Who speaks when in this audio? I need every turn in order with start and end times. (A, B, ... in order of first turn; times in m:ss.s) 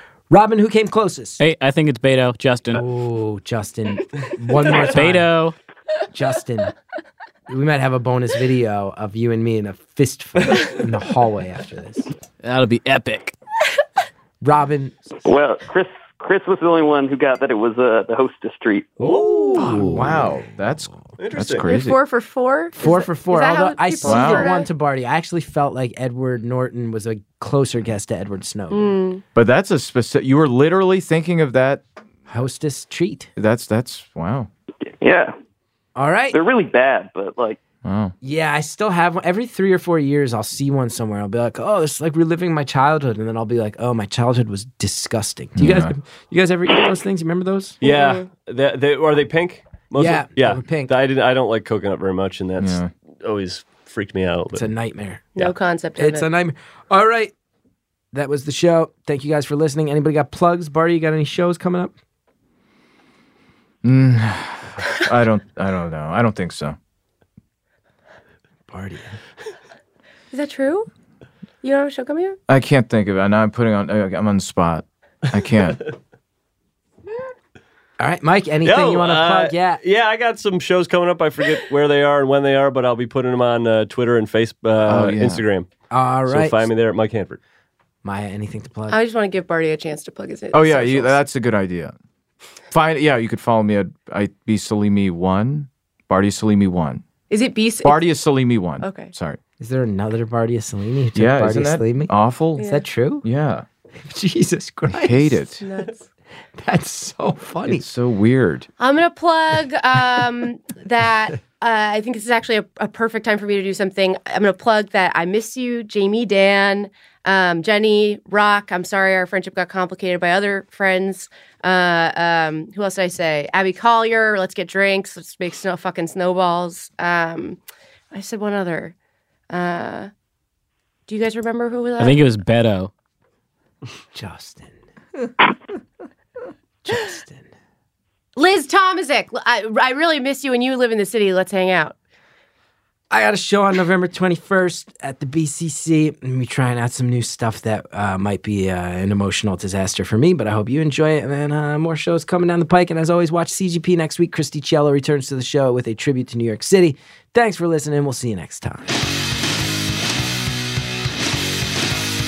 0:00.3-0:01.4 A
0:01.4-0:02.8 B
0:02.7-0:05.3 A
0:04.8-0:05.6 B
0:06.1-0:06.7 A
0:07.5-0:12.1 A
0:12.4-0:13.4 B
0:14.4-0:15.0 A
0:15.2-0:19.1 C
0:19.0-0:19.6 D
0:19.0-0:20.4 A
0:19.5-0:22.0 E
0:21.2-0:21.7 D
0:21.6-0:24.7 F
0:22.8-0:29.0 A
0:24.0-0:24.5 E
0:28.7-0:29.2 F
0:29.4-0:31.8 E
0:32.3-0:33.3 A
0:33.4-0:34.5 E
0:35.0-0:35.3 C
0:36.0-0:36.4 A
0:36.3-0:37.6 C
0:37.8-0:38.1 E
0:38.2-0:47.8 A
0:45.6-0:45.9 E
0:47.8-0:54.7 D
0:47.8-0:48.3 F
0:50.0-0:50.9 A
0:52.6-0:52.9 E
0:54.5-0:55.3 A
0:55.4-0:56.3 F
0:56.0-0:57.3 A
0:58.1-1:01.9 A
1:03.8-1:06.8 E
1:08.7-1:09.2 A
1:10.3-1:10.9 F
1:11.6-1:12.4 F
1:12.5-1:15.9 E
1:18.0-1:19.8 A
1:18.6-1:25.7 D
1:24.8-1:25.4 E
1:25.9-1:26.7 A
1:26.3-1:27.4 D
1:28.0-1:29.0 A
1:28.9-1:31.2 F
1:30.5-1:31.9 E
1:32.7-1:37.0 E
1:37.3-1:38.2 F
1:37.8-1:39.4 E
1:38.8-1:39.1 F
1:39.6-1:43.2 A
1:41.2-1:42.7 E
1:42.6-1:42.8 F
1:43.2-1:43.6 E
1:44.0-1:45.4 A
1:44.9-1:45.6 E
1:45.6-1:46.1 F
1:46.6-1:47.8 A
1:47.7-1:48.7 E
1:48.8-2:07.6 F
2:08.1-2:08.9 F
2:09.5-2:10.1 F
2:11.1-2:12.2 F
2:12.0-2:12.9 B
2:14.1-2:14.8 A
2:16.8-2:17.5 A
2:18.4-2:22.0 F
2:23.1-2:38.9 A